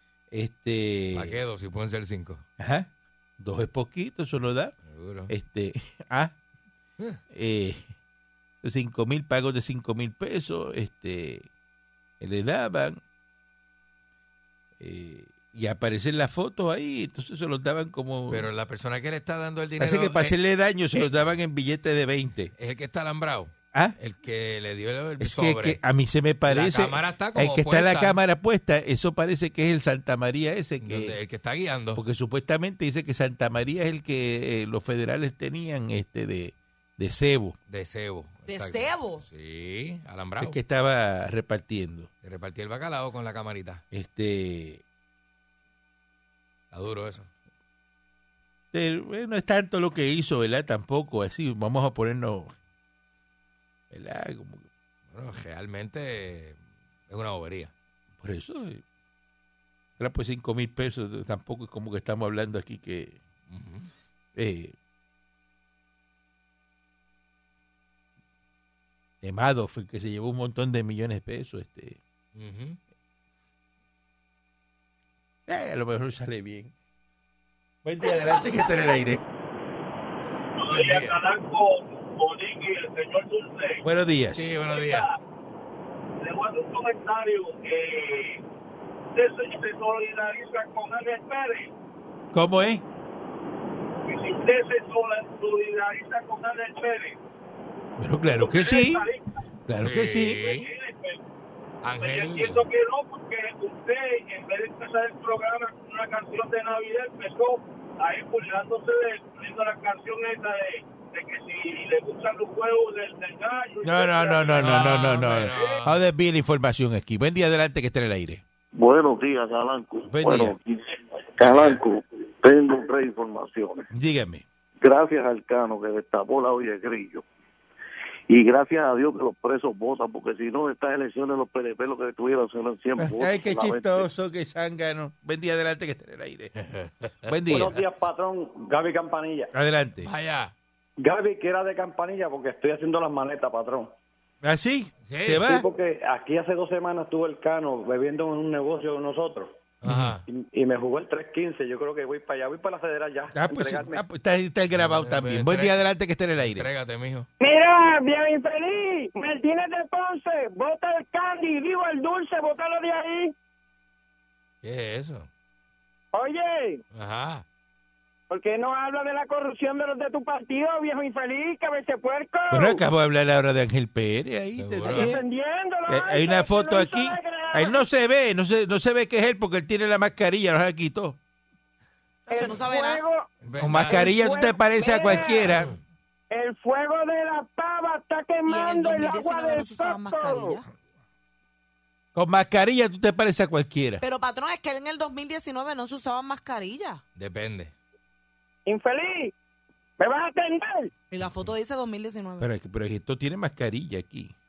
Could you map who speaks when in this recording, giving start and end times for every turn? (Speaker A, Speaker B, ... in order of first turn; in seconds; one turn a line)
Speaker A: 0.3-1.4
Speaker B: 1.1-2.4
Speaker A: 2.6-4.7
Speaker B: 4.9-5.3
Speaker A: 5.3-6.3
Speaker A: 7.3-7.9
Speaker A: 8.6-11.5
Speaker A: 12.2-13.0
Speaker A: 14.8-18.5
Speaker B: 18.3-20.4
Speaker A: 19.8-22.5
Speaker B: 22.6-25.8
Speaker A: 25.2-31.1
Speaker B: 26.5-28.2
Speaker B: 30.8-32.0
Speaker A: 31.9-37.6
Speaker B: 37.7-40.6
Speaker C: 38.5-39.2
Speaker A: 40.4-42.1
Speaker B: 42.2-43.8
Speaker A: 43.9-44.8
Speaker B: 46.7-47.3
Speaker A: 48.7-52.5
Speaker A: 53.9-54.6
Speaker B: 55.1-57.7
Speaker A: 58.2-58.8
Speaker A: 60.0-63.2
Speaker B: 63.5-63.9
Speaker A: 64.4-64.7
Speaker A: 69.2-72.0
Speaker B: 72.3-72.8
Speaker A: 75.5-76.7
Speaker A: 77.8-79.2
Speaker D: 80.6-83.8
Speaker B: 80.7-81.2
Speaker A: 83.8-84.6
Speaker B: 84.4-85.0
Speaker D: 84.7-85.1
Speaker D: 86.2-88.4
Speaker D: 89.2-91.7
Speaker A: 92.3-92.8
Speaker D: 94.0-97.2
Speaker A: 98.0-99.1
Speaker D: 98.3-99.3
Speaker A: 99.7-100.4
Speaker B: 99.8-100.7
Speaker D: 100.4-101.2
Speaker B: 101.8-102.6
Speaker D: 102.0-114.8
Speaker A: 113.8-118.4
Speaker B: 114.5-115.9
Speaker D: 115.3-115.8
Speaker E: 118.7-123.9
Speaker A: 120.1-120.6
Speaker B: 121.4-121.8
Speaker A: 123.9-124.4
Speaker E: 124.8-127.2
Speaker E: 128.3-134.1
Speaker A: 133.0-136.5
Speaker B: 136.6-137.8
Speaker A: 137.2-137.7
Speaker F: 137.5-139.5
Speaker A: 139.5-140.1
Speaker B: 140.0-140.5
Speaker F: 141.0-143.9
Speaker A: 144.4-145.7
Speaker B: 145.1-145.5
Speaker F: 145.4-149.6
Speaker B: 149.8-150.2
Speaker A: 149.9-150.2
Speaker F: 150.3-154.0
Speaker A: 153.3-156.7
Speaker B: 154.7-155.8
Speaker B: 156.4-157.3
Speaker G: 157.4-163.3
Speaker B: 164.6-165.3
Speaker G: 166.1-166.8
Speaker B: 166.9-167.4
Speaker G: 168.3-172.8
Speaker A: 172.5-175.2
Speaker B: 174.6-175.2
Speaker G: 174.9-177.8
Speaker A: 175.9-181.2
Speaker G: 182.3-183.3
Speaker C: 182.3-183.0
Speaker B: 183.4-184.1
Speaker A: 183.6-185.7
Speaker G: 183.9-185.5
Speaker G: 186.3-190.6
Speaker C: 188.4-190.6
Speaker A: 192.1-194.0
Speaker C: 194.0-197.0
Speaker B: 197.2-197.7
Speaker G: 198.7-199.3
Speaker G: 200.0-200.9
Speaker C: 201.1-202.5
Speaker A: 202.4-204.3